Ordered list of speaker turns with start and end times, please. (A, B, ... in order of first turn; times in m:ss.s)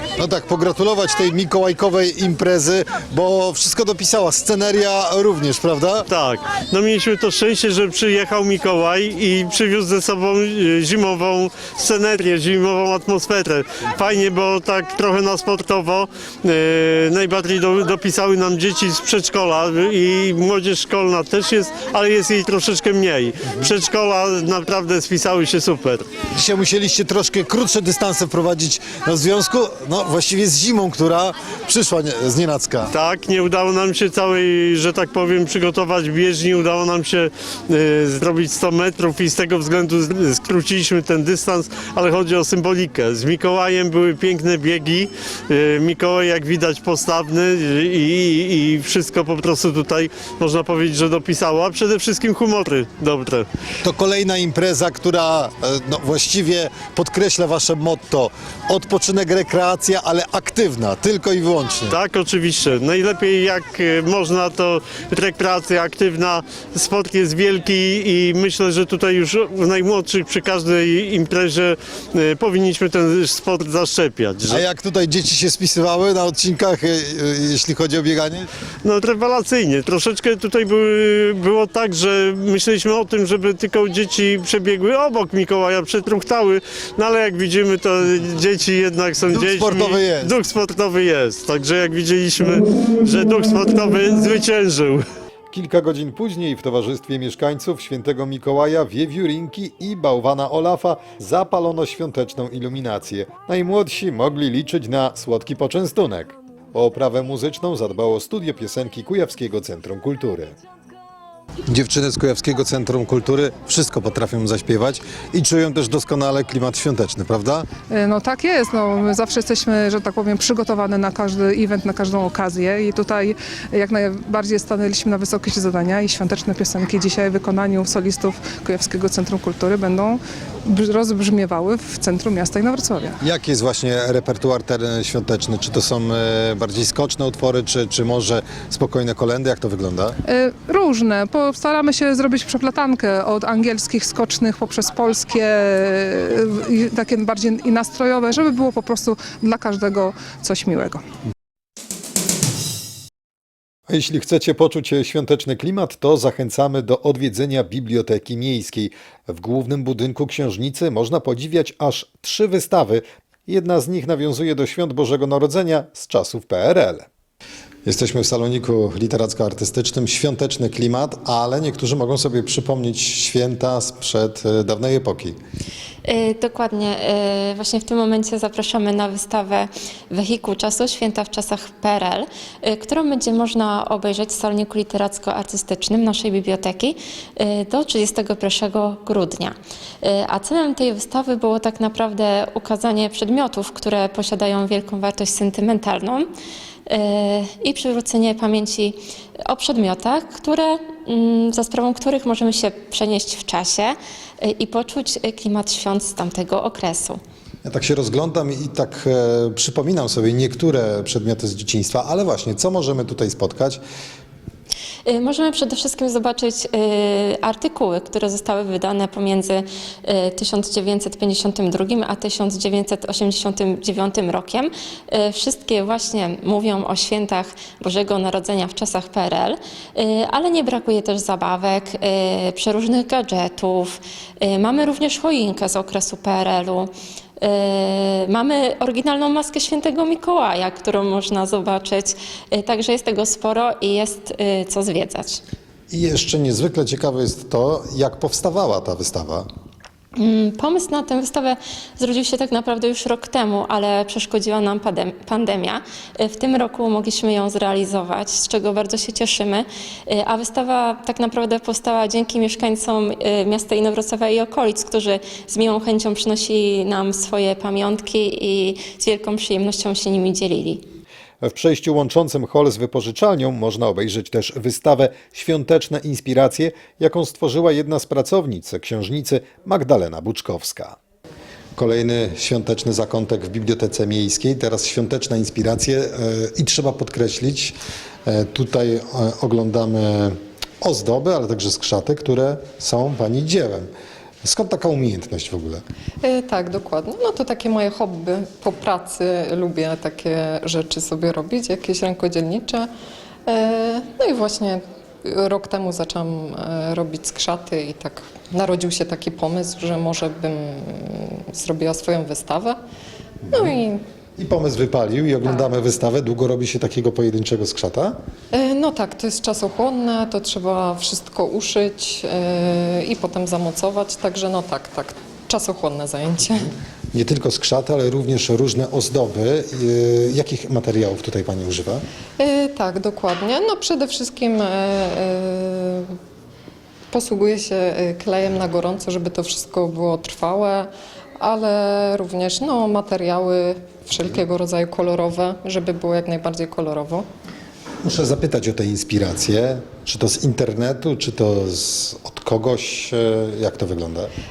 0:00.2-0:06.1 A
0:06.1-0:26.1 B
0:26.4-0:32.9 A
0:32.9-0:53.5 B
0:53.8-1:02.0 A
1:01.9-1:14.6 B
1:14.5-1:18.5 A
1:18.8-1:35.0 B
1:29.3-1:30.3 A
1:35.5-1:50.6 A
1:51.7-1:57.7 A
1:57.9-2:13.1 C
2:13.2-2:20.2 A
2:20.2-2:31.0 C
2:33.9-2:47.1 A
2:47.9-2:55.4 A
2:56.1-3:16.3 D
3:16.9-3:19.0 D
3:19.5-3:27.2 D
3:27.6-3:33.8 A
3:35.1-4:05.4 D
4:05.9-4:09.5 A
4:10.2-4:30.8 D
4:31.4-4:41.0 A
4:41.8-4:47.7 A
4:48.2-4:53.9 A
4:54.4-4:55.8 A
4:56.2-5:02.9 E
5:03.5-5:12.8 E
5:13.5-5:14.0 E
5:14.4-5:18.2 A
5:18.5-5:26.7 E
5:27.1-5:32.0 A
5:32.4-5:36.0 E
5:37.1-5:47.2 E
5:48.0-5:54.3 A